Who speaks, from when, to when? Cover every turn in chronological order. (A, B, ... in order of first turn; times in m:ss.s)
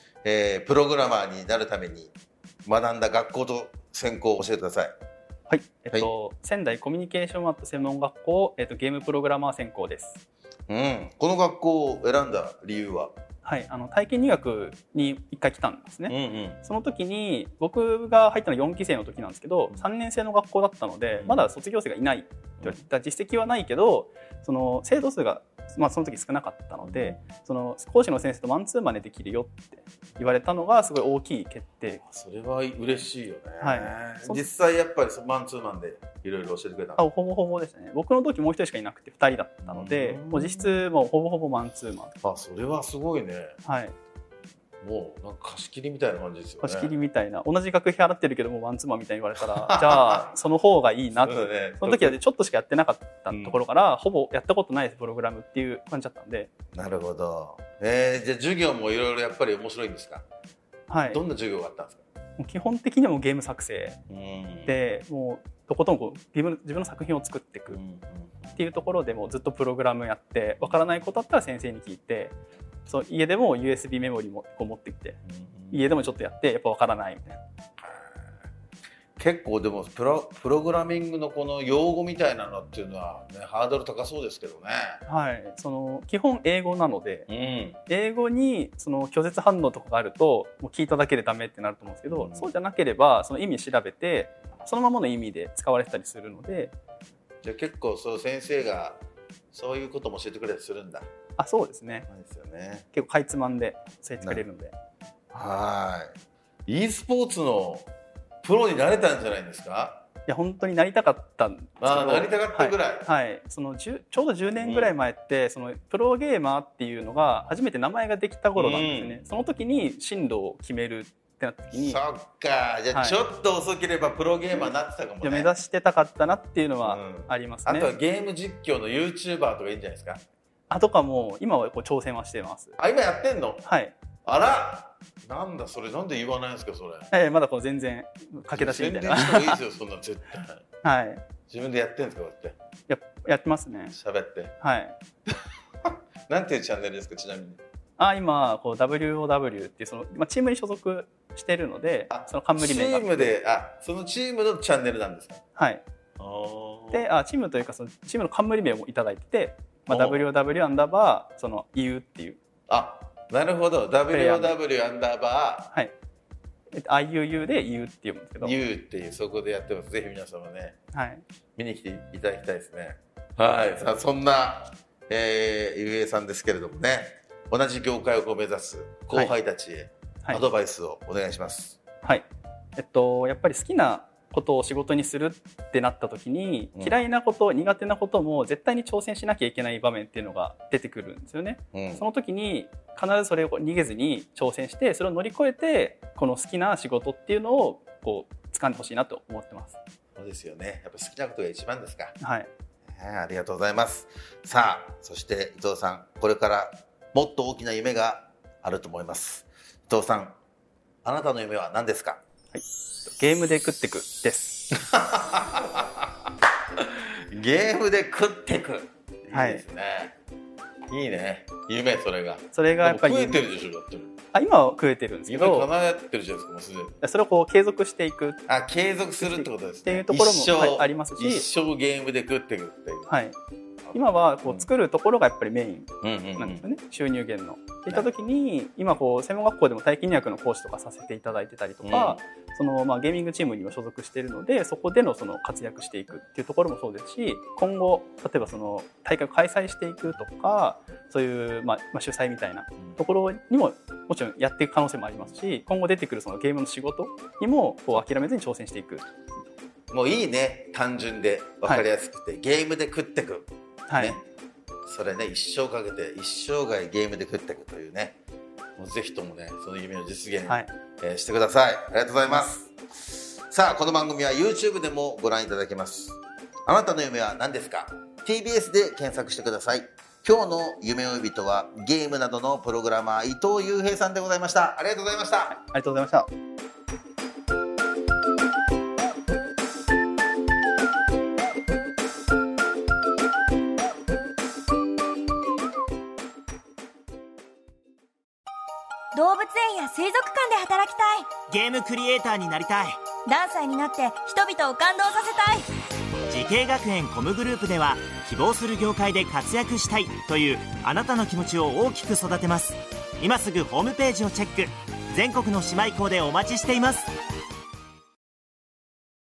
0:00.2-0:02.1 A
0:02.6-0:04.9 A
0:05.5-0:10.2 B
0:10.7-0:13.1 A
0:13.4-0:32.0 B
0:16.1-0:16.6 A
0:21.1-0:21.5 A
0:26.8-0:27.2 A
0:32.0-0:37.0 A
0:33.6-0:34.5 B
0:37.0-0:42.1 B
0:39.6-0:40.8 A
0:42.2-0:43.5 A
0:43.6-0:44.0 B
0:44.8-0:46.9 A
0:46.6-0:56.5 B
0:49.5-0:50.3 A
0:51.2-0:52.2 A
0:53.3-0:53.6 A
0:56.7-1:00.2 A
1:00.9-1:01.2 B
1:01.1-1:02.0 A
1:02.4-1:04.0 B
1:04.1-1:04.8 A
1:04.6-1:07.8 B
1:07.7-1:08.6 A
1:08.6-1:12.3 B
1:12.8-1:15.2 B
1:15.3-1:15.8 A
1:15.7-1:17.4 B
1:17.8-1:18.1 A
1:19.2-1:25.0 A
1:25.0-1:27.3 B
1:27.3-1:27.8 A
1:27.9-1:36.7 B
1:32.1-1:32.5 A
1:37.4-1:39.0 A
1:39.5-1:41.1 A
1:41.4-1:42.1 B
1:42.1-1:42.8 A
1:42.9-1:44.7 B
1:45.3-1:46.1 A
1:46.7-1:47.9 A
1:48.4-1:50.0 A
1:50.3-2:02.0 B
1:51.8-1:53.1 A
1:54.6-1:54.9 A
1:58.6-1:59.2 A
2:01.7-2:05.5 A
2:02.9-2:03.2 B
2:04.5-2:07.9 B
2:06.8-2:10.2 A
2:10.7-2:12.8 B
2:12.8-2:13.6 A
2:13.6-2:13.9 B
2:14.2-2:17.1 A
2:17.1-2:19.6 B
2:18.5-2:20.6 A
2:20.8-2:21.2 B
2:21.5-2:22.6 A
2:22.9-2:24.0 B
2:23.9-2:24.5 A
2:24.6-2:25.0 B
2:25.3-2:27.6 A
2:28.0-2:33.3 B
2:32.1-2:35.4 A
2:35.6-2:35.8 B
2:36.2-2:37.1 A
2:36.9-2:42.4 B
2:39.9-2:40.2 A
2:42.7-2:45.7 A
2:44.1-2:44.6 B
2:46.7-2:48.6 B
2:48.4-2:50.8 A
2:50.9-2:51.2 B
2:51.6-3:01.8 A
3:02.0-3:19.8 B
3:06.7-3:07.0 A
3:11.7-3:12.0 A
3:20.2-3:22.1 A
3:22.2-3:22.5 B
3:22.9-3:30.4 A
3:31.0-3:32.2 A
3:32.5-3:34.7 B
3:34.8-3:36.0 A
3:36.8-3:40.1 A
3:39.3-3:39.6 B
3:40.9-3:44.2 A
3:42.5-3:43.4 B
3:44.3-3:45.7 B
3:45.3-3:47.0 A
3:47.0-3:48.4 B
3:48.5-3:53.2 A
3:49.2-3:51.4 B
3:53.1-3:53.4 B
3:53.9-3:54.7 A
3:53.9-4:19.4 B
3:56.0-3:56.7 A
4:01.8-4:02.2 A
4:19.9-4:24.2 A
4:23.9-4:24.2 B
4:24.8-4:28.2 A
4:28.8-4:45.6 A
4:30.5-4:30.7 B
4:45.5-4:46.3 B
4:59.1-5:01.3 C
5:01.5-5:03.0 D
5:03.2-5:05.7 C
5:06.3-5:17.1 D